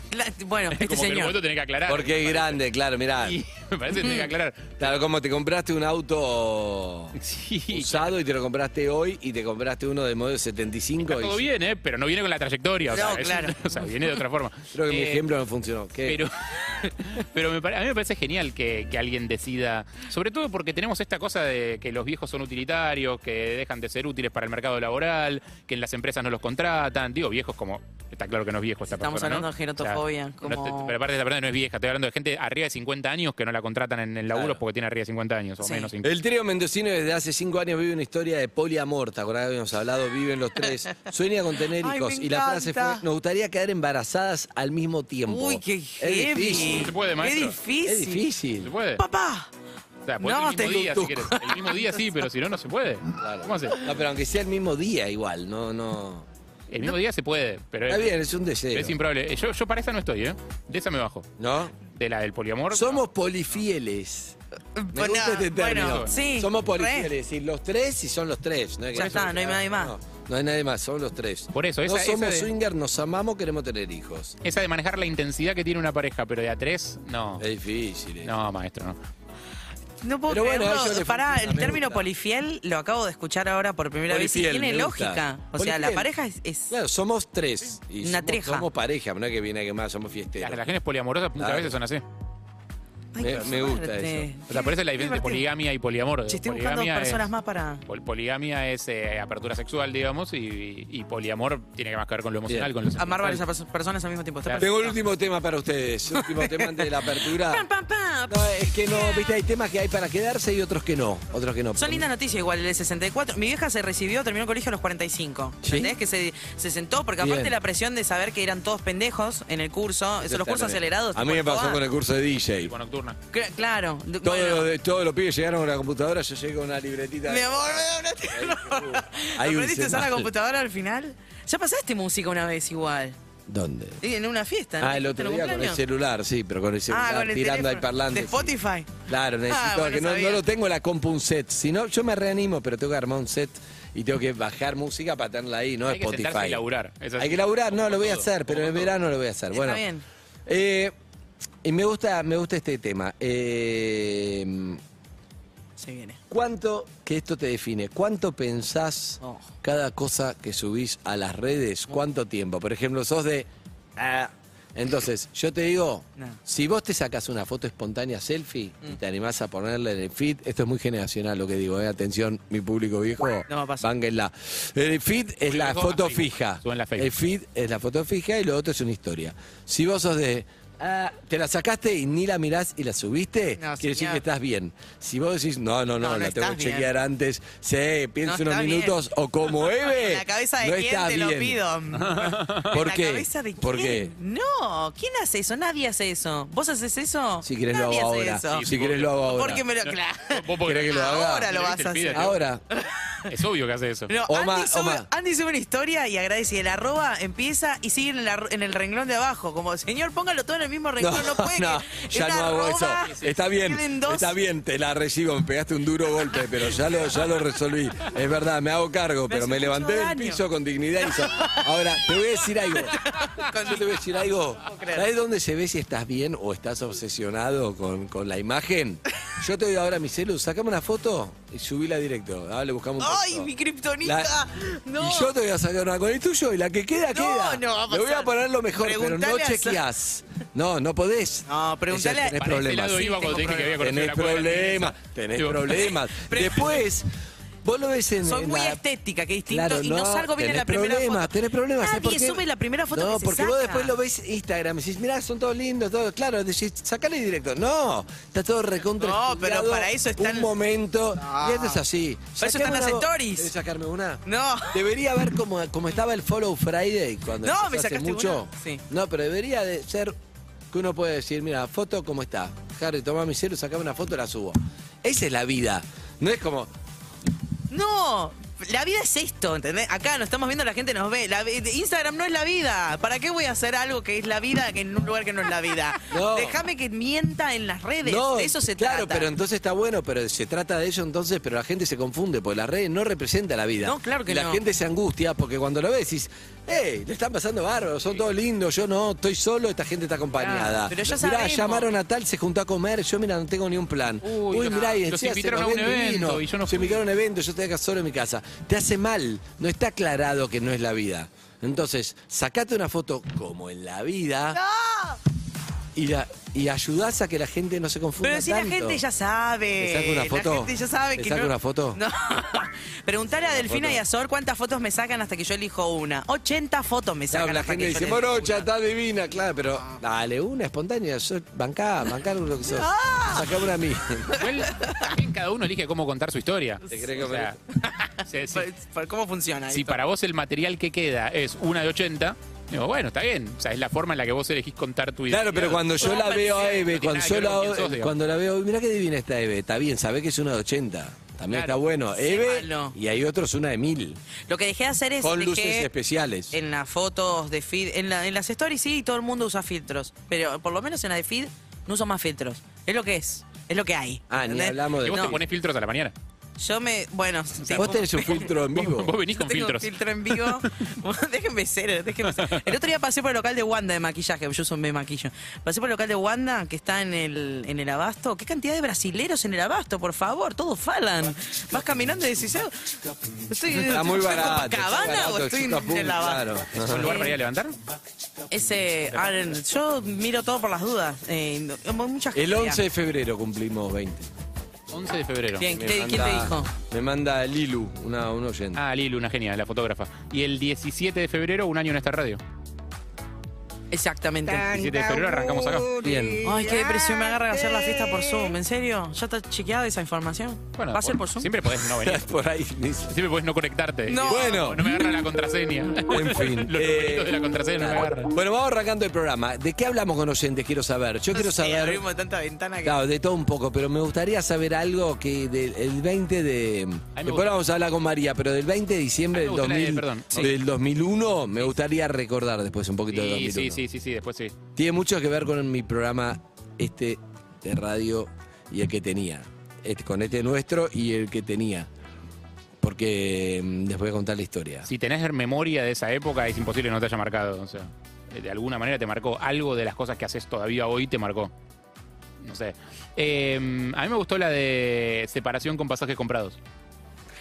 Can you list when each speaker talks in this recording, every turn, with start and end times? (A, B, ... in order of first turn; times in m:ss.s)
0:00.1-0:01.4 A
0:00.7-0:02.6 B
0:01.9-0:03.4 C
0:03.2-0:04.9 B
0:04.0-0:04.3 A
0:04.8-0:07.1 C
0:07.2-0:08.2 B
0:07.7-0:11.4 C
0:11.0-0:15.2 B
0:12.9-0:13.7 A
0:14.7-0:16.2 C
0:16.0-0:36.1 B
0:28.9-0:31.0 A
0:34.3-0:34.6 C
0:35.6-0:35.9 A
0:36.0-0:46.9 C
0:41.8-0:43.0 A
0:45.3-0:48.2 A
0:46.8-0:47.6 B
0:47.8-0:48.7 C
0:48.6-0:49.0 B
0:49.0-0:49.5 A
0:50.1-0:53.8 B
0:50.2-0:51.9 A
0:53.2-0:56.2 C
0:56.7-0:58.2 B
0:57.9-0:59.0 C
0:58.7-1:01.3 B
1:01.4-1:01.7 C
1:01.9-1:03.0 B
1:02.7-1:04.3 C
1:04.7-1:07.1 A
1:04.9-1:14.4 C
1:05.7-1:06.1 B
1:08.9-1:09.5 B
1:08.9-1:09.9 A
1:11.5-1:12.5 B
1:14.4-1:17.4 B
1:17.4-1:18.3 C
1:18.2-1:19.0 B
1:20.0-1:26.7 A
1:20.3-1:22.0 C
1:24.1-1:26.1 C
1:26.7-1:30.6 C
1:28.0-1:28.7 A
1:30.4-1:32.0 B
1:31.4-1:31.8 C
1:33.1-1:35.4 A
1:33.2-1:34.3 C
1:34.5-1:37.3 B
1:36.3-1:37.8 A
1:37.8-1:43.4 B
1:43.0-1:45.0 A
1:44.6-1:47.6 C
1:46.1-1:49.3 A
1:48.3-1:52.1 C
1:51.8-2:01.8 A
1:55.6-1:55.9 C
1:57.2-1:57.6 C
2:00.2-2:02.7 C
2:02.7-2:03.2 B
2:03.3-2:04.7 A
2:04.2-2:10.3 C
2:07.3-2:13.2 A
2:13.5-2:14.0 C
2:14.0-2:15.8 A
2:14.8-2:26.6 C
2:16.9-2:20.4 A
2:25.9-2:28.9 B
2:27.2-2:29.8 C
2:29.5-2:30.0 A
2:30.5-2:30.9 C
2:31.6-2:34.8 C
2:35.8-2:36.2 A
2:36.3-3:11.6 C
2:39.2-2:39.5 A
2:53.5-2:53.9 A
2:55.4-2:57.2 B
3:03.6-3:04.2 A
3:06.0-3:06.9 A
3:08.2-3:09.0 A
3:09.8-3:23.2 A
3:11.9-3:12.8 B
3:12.7-3:14.1 C
3:17.4-3:19.6 C
3:18.5-3:19.2 B
3:19.8-3:22.3 B
3:20.6-3:21.5 C
3:22.1-3:22.6 C
3:23.3-3:24.1 B
3:24.1-3:34.3 A
3:24.2-3:25.1 C
3:31.0-3:53.5 C
3:39.3-3:40.4 A
3:41.0-3:41.7 A
3:42.8-3:43.9 A
3:44.6-3:45.0 A
3:53.0-3:55.3 A
3:54.0-3:54.3 C
3:55.0-4:03.1 C
3:57.1-3:59.8 A
4:01.5-4:03.8 A
4:02.3-4:05.9 B
4:03.8-4:07.0 C
4:06.2-4:06.8 A
4:07.6-4:08.8 C
4:08.2-4:13.9 A
4:09.5-4:30.1 C
4:19.0-4:20.5 A
4:21.2-4:21.8 A
4:22.4-4:23.5 A
4:24.2-4:24.8 A
4:27.4-4:28.8 A
4:30.7-4:36.7 C
4:37.7-4:49.3 A
4:46.1-4:46.6 C
4:48.0-5:14.6 C
4:53.8-4:54.6 A
5:00.4-5:01.9 A
5:04.2-5:07.0 B
5:14.5-5:15.2 A
5:15.9-5:19.0 C
5:18.2-5:28.6 A
5:19.8-5:22.0 C
5:23.3-5:24.0 C
5:27.3-5:34.4 C
5:32.8-5:33.5 A
5:34.3-5:37.6 B
5:34.8-5:35.1 A
5:36.9-5:37.5 C
5:37.8-5:40.0 A
5:38.2-5:38.6 B
5:39.7-5:48.1 B
5:45.3-5:54.2 C
5:46.0-5:46.9 A
5:51.5-5:51.8 B
5:52.1-5:53.0 A
5:54.5-5:55.9 A
5:55.2-5:56.5 C
5:56.5-6:05.4 A
6:04.3-6:05.4 C
6:05.0-6:06.1 B
6:06.6-6:08.5 A
6:07.6-6:10.5 B
6:07.8-6:09.1 C
6:09.3-6:22.7 A
6:12.3-6:12.7 B
6:23.5-6:26.4 A
6:23.8-6:27.1 C
6:26.7-6:27.7 B
6:27.0-6:27.4 A
6:28.5-6:32.8 A
6:32.3-6:34.3 C
6:34.9-6:35.7 B
6:35.6-6:36.7 A
6:35.7-6:38.8 C
6:38.8-6:42.4 B
6:43.9-6:51.5 A
6:44.6-6:45.9 B
6:46.0-6:46.8 C
6:50.8-6:52.4 B
6:51.8-6:53.1 C
6:53.1-6:58.3 B
6:54.1-6:54.8 A
6:54.3-6:54.8 C
6:56.1-7:02.0 C
7:01.3-7:03.0 A
7:02.8-7:13.8 C
7:07.2-7:07.5 B
7:09.3-7:10.5 B
7:13.1-7:14.5 B
7:14.8-7:21.9 C
7:22.8-7:24.9 C
7:24.8-7:31.5 B
7:32.4-7:36.6 B